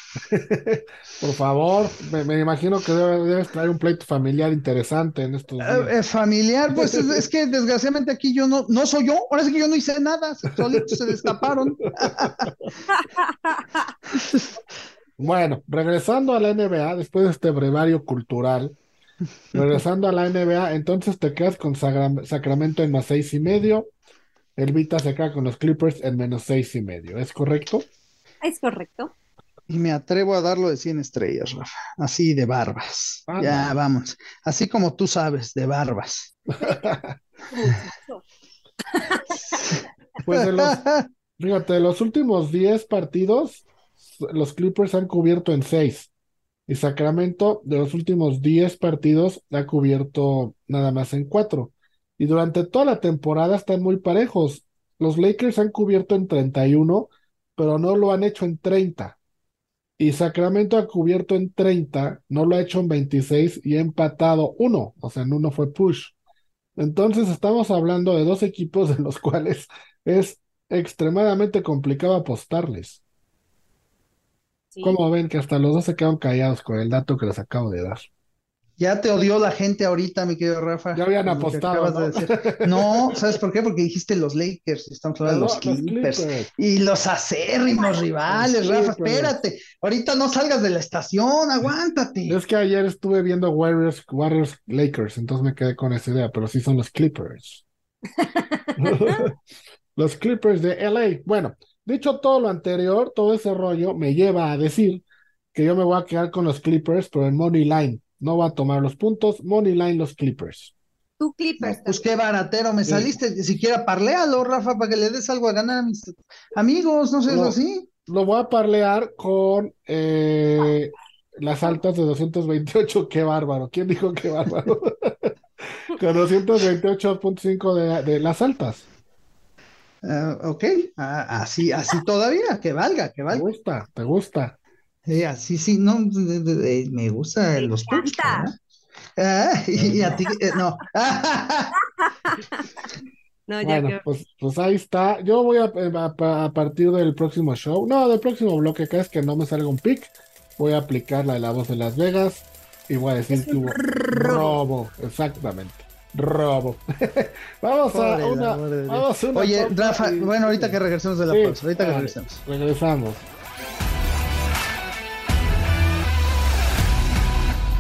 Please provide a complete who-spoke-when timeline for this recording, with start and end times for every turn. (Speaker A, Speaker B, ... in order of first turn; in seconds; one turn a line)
Speaker A: 0.3-5.9
Speaker B: 5.6-12.5
Speaker A: 6.8-7.1
Speaker A: 12.1-12.7
Speaker C: 12.9-13.5
Speaker B: 14.1-14.5
Speaker A: 15.2-18.8
Speaker A: 19.6-23.9
Speaker A: 24.6-27.9
Speaker C: 28.4-29.1
Speaker B: 29.7-36.4
Speaker A: 33.3-33.7
Speaker C: 36.6-37.0
Speaker A: 36.7-37.1
Speaker C: 37.5-38.2
Speaker C: 39.0-39.6
Speaker A: 40.2-40.8
Speaker B: 40.3-41.0
Speaker A: 41.4-46.1
Speaker A: 46.7-59.2
Speaker A: 60.0-66.1
Speaker A: 66.8-73.0
Speaker C: 74.7-75.0
Speaker A: 74.8-78.1
Speaker B: 78.8-92.4
Speaker A: 80.9-83.3
Speaker A: 85.2-86.5
Speaker C: 87.7-88.0
Speaker A: 88.3-89.4
Speaker A: 92.3-97.6
Speaker C: 98.2-99.2
Speaker A: 98.8-99.3
Speaker A: 100.0-110.7
Speaker C: 111.2-112.1
Speaker B: 111.6-117.9
Speaker A: 112.8-113.1
Speaker A: 117.3-125.3
Speaker A: 125.9-128.9
Speaker B: 130.0-133.5
Speaker A: 133.3-134.6
Speaker B: 135.1-138.5
Speaker C: 137.6-138.5
Speaker B: 139.2-141.7
Speaker A: 139.8-140.2
Speaker C: 142.0-142.7
Speaker C: 143.5-144.0
Speaker A: 143.6-163.2
Speaker C: 153.3-154.6
Speaker B: 157.9-162.4